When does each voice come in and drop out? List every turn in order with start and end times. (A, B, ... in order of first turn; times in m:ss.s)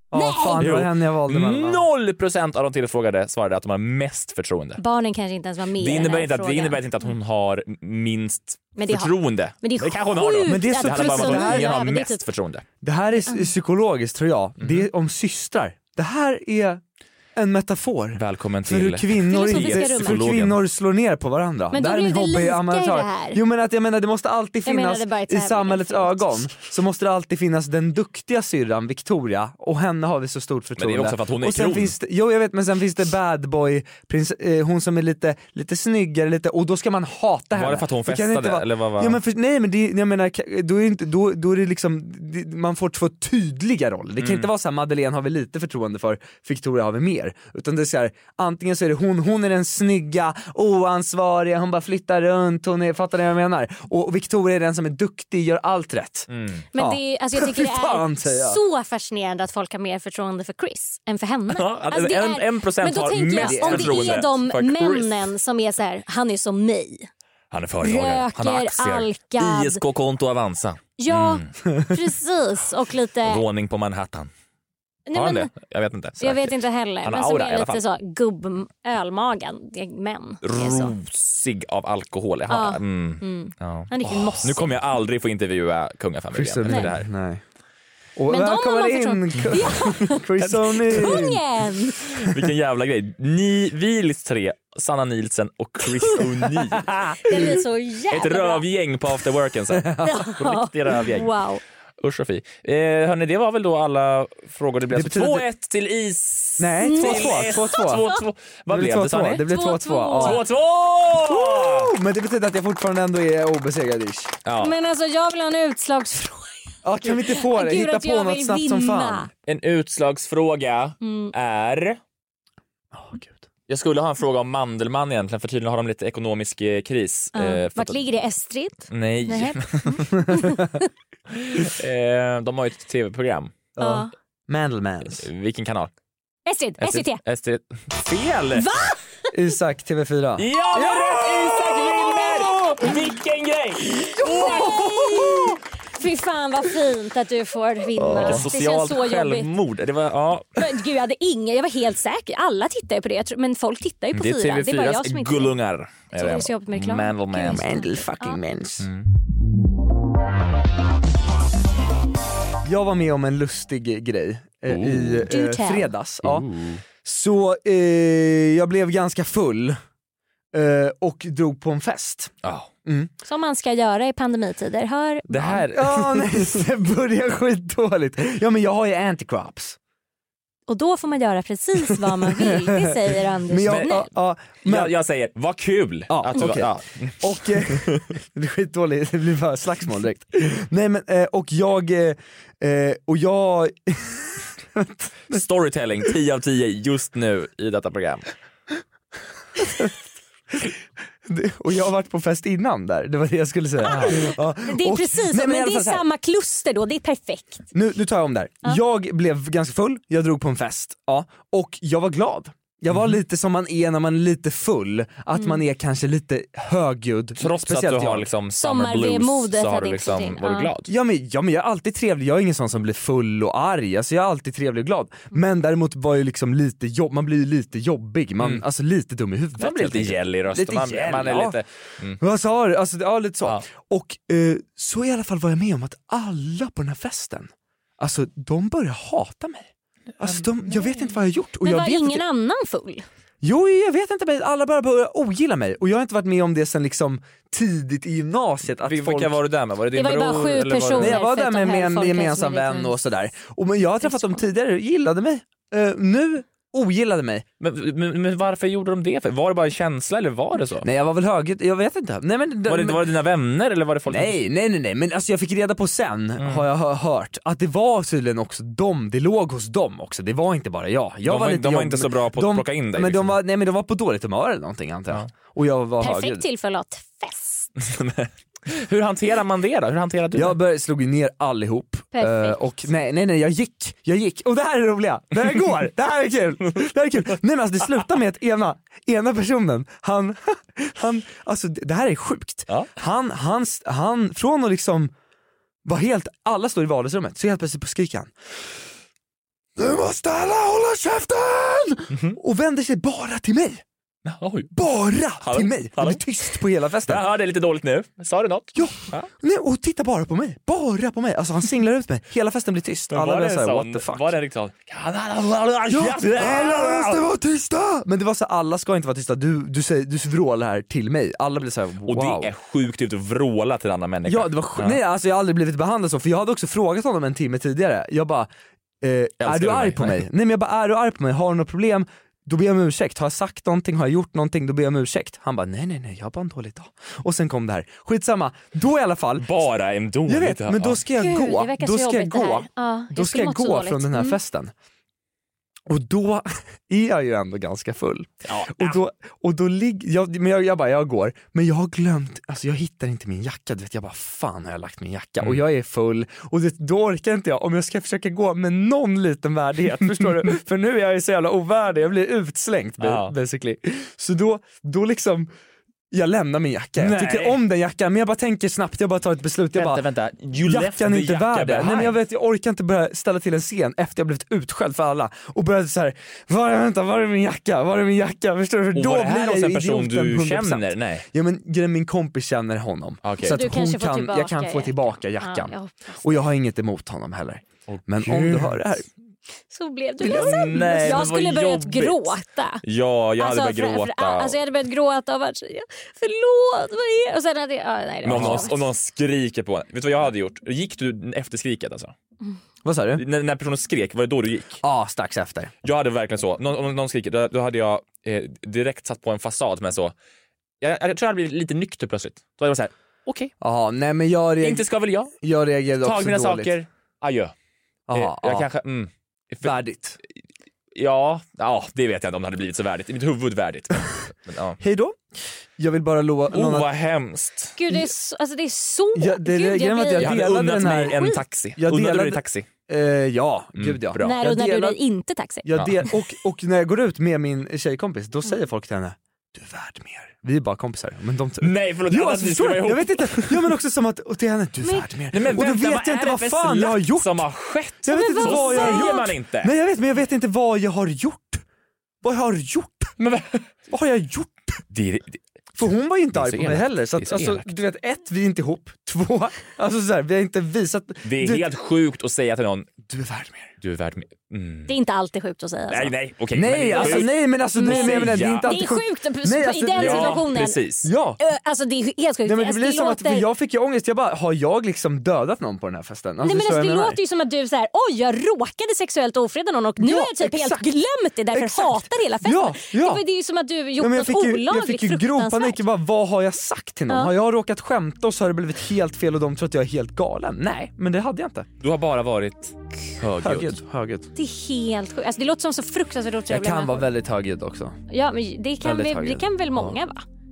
0:00.1-0:01.8 A
0:00.1-0:00.6 B
0:00.6-0:04.8 C
0:04.8-0:06.8 B
0:05.8-0:12.6 C
0:08.8-0:12.2 B
0:10.5-0:11.8 A
0:12.8-0:16.8 A
0:14.6-0:14.9 C
0:17.4-0:58.6 A
0:18.2-0:20.6 C
0:19.3-0:20.3 B
0:21.7-0:23.4 B
0:24.6-0:26.4 B
0:30.8-0:31.9 C
0:37.5-0:39.2 C
0:44.2-0:44.5 C
0:56.3-0:56.6 C
0:56.7-1:07.1 B
1:01.5-1:05.2 C
1:03.4-1:04.2 A
1:07.5-1:11.5 C
1:07.8-1:09.8 B
1:11.0-1:13.4 B
1:13.2-1:14.3 C
1:15.1-1:15.5 B
1:15.1-1:17.8 C
1:16.2-1:20.9 B
1:20.4-1:27.1 C
1:22.5-1:24.8 B
1:26.3-1:27.4 A
1:28.2-1:31.4 A
1:28.3-1:30.2 B
1:30.4-1:31.2 C
1:30.8-1:32.0 B
1:32.2-1:37.1 C
1:37.2-1:38.6 B
1:38.1-1:41.3 C
1:39.7-1:40.2 A
1:40.0-1:41.6 B
1:42.0-1:49.4 C
1:44.9-1:45.4 A
1:46.6-1:48.0 A
1:46.8-1:48.2 B
1:48.7-1:50.4 A
1:49.4-1:50.4 B
1:50.2-1:51.9 C
1:51.3-1:54.3 A
1:54.4-1:54.7 C
1:54.6-1:59.3 B
1:56.8-1:59.3 A
1:59.4-2:02.0 C
2:01.0-2:01.3 B
2:02.9-2:03.4 A
2:03.7-2:08.0 C
2:07.3-2:10.8 B
2:08.9-2:10.2 C
2:11.3-2:13.7 C
2:13.8-2:15.3 A
2:13.8-2:14.1 B
2:15.2-2:15.9 C
2:16.4-2:17.2 B
2:16.8-2:18.7 C
2:18.5-2:19.0 B
2:19.3-2:23.0 A
2:20.4-2:25.2 C
2:21.5-2:23.0 B
2:23.9-2:25.6 A
2:24.3-2:29.5 B
2:28.0-2:28.5 A
2:28.1-2:30.6 C
2:30.6-2:35.5 B
2:34.1-2:37.6 C
2:36.1-2:38.4 B
2:37.5-2:38.9 A
2:38.8-2:39.1 C
2:42.6-2:46.5 A
2:44.7-2:45.3 C
2:45.3-2:45.9 B
2:46.2-2:46.8 C
2:47.0-2:49.8 A
2:50.5-2:52.3 A
2:52.4-2:52.7 C
2:53.2-2:55.6 B
2:55.3-2:56.6 C
2:55.7-2:59.8 A
3:00.7-3:04.0 B
3:02.0-3:02.9 A
3:03.5-3:04.9 A
3:03.7-3:03.9 C
3:04.6-3:08.2 C
3:06.1-3:15.4 A
3:15.3-3:18.2 C
3:21.2-3:26.0 A
3:23.8-3:27.6 B
3:27.7-3:38.3 A
3:32.9-3:33.2 C
3:35.3-3:35.6 B
3:37.4-3:40.9 C
3:38.5-3:40.7 B
3:40.9-3:51.6 A
3:49.6-3:52.2 C
3:52.2-4:02.2 A
4:00.2-4:00.8 C
4:01.6-4:03.0 B
4:03.4-4:09.4 A
4:08.8-4:11.2 C
4:09.9-4:13.0 B
4:11.0-4:17.4 A
4:14.0-4:14.4 B
4:17.6-4:20.9 C
4:20.8-4:23.1 A
4:22.7-4:24.4 C
4:24.1-4:36.4 A
4:26.4-4:26.7 C
4:31.2-4:33.4 C
4:36.0-4:37.7 B
4:37.8-4:40.6 C
4:40.3-4:55.1 A
4:42.1-4:42.6 B
4:55.8-4:58.3 A
4:59.8-5:03.8 A
5:02.1-5:02.4 C
5:04.2-5:04.7 C
5:04.7-5:07.2 A
5:05.4-5:09.3 C
5:08.8-5:14.3 A
5:13.1-5:17.2 C
5:15.9-5:22.5 A
5:22.0-5:25.0 C
5:24.2-5:28.5 A
5:29.0-5:39.5 A
5:29.4-5:30.2 C
5:39.4-5:41.0 C
5:40.3-5:44.7 A
5:41.2-5:44.4 B
5:45.9-6:05.5 A
5:48.4-5:49.0 C
6:03.0-6:03.3 C
6:06.1-6:10.0 A
6:07.0-6:07.6 C
6:09.7-6:12.2 C
6:10.6-6:29.1 A
6:18.9-6:21.2 C
6:23.2-6:23.7 C
6:23.4-6:26.4 B
6:27.9-6:28.8 C
6:29.7-6:32.8 B
6:30.2-6:31.3 A
6:30.3-6:34.6 C
6:33.4-6:38.8 B
6:38.2-6:42.1 C
6:38.3-6:38.6 A
6:42.8-6:43.2 A
6:43.2-6:44.8 C
6:44.8-6:45.7 A
6:45.8-6:50.1 C
6:50.8-6:53.5 C
6:53.6-6:54.8 A
6:54.6-6:55.3 C
6:55.4-6:56.7 A
6:56.0-6:57.5 C
6:58.1-6:58.6 A
6:58.1-6:59.8 C
6:59.6-7:00.2 A
7:00.9-7:04.8 C
7:04.8-7:05.2 A
7:05.8-7:06.9 A
7:06.5-7:07.8 C
7:07.8-7:11.4 B
7:09.1-7:15.0 A
7:10.2-7:12.7 C
7:13.8-7:14.4 C
7:14.2-7:16.1 B
7:15.6-7:27.4 A
7:15.7-7:16.0 C
7:21.6-7:23.7 C
7:24.8-7:25.1 B
7:25.3-7:29.7 C
7:28.0-7:31.6 A
7:28.1-7:29.3 B
7:32.2-7:33.1 A
7:33.2-7:33.7 C
7:33.9-7:34.8 A
7:34.9-7:35.4 C
7:35.8-7:41.6 A
7:36.3-7:37.7 C
7:41.2-7:42.9 C
7:43.1-7:43.7 A
7:43.8-7:44.9 C
7:44.9-7:46.1 B
7:45.9-7:48.7 C
7:46.5-7:51.4 A
7:46.7-7:50.8 B
7:50.0-7:51.1 C
7:51.4-7:53.4 B
7:52.4-7:57.2 A
7:56.4-8:05.8 B
8:00.0-8:00.9 A
8:01.5-8:03.2 A
8:04.0-8:11.7 A
8:07.1-8:07.3 B
8:11.8-8:13.8 C
8:13.4-8:14.3 A
8:14.3-8:17.1 B
8:16.5-8:18.0 A
8:18.1-8:20.2 B
8:18.8-8:20.0 A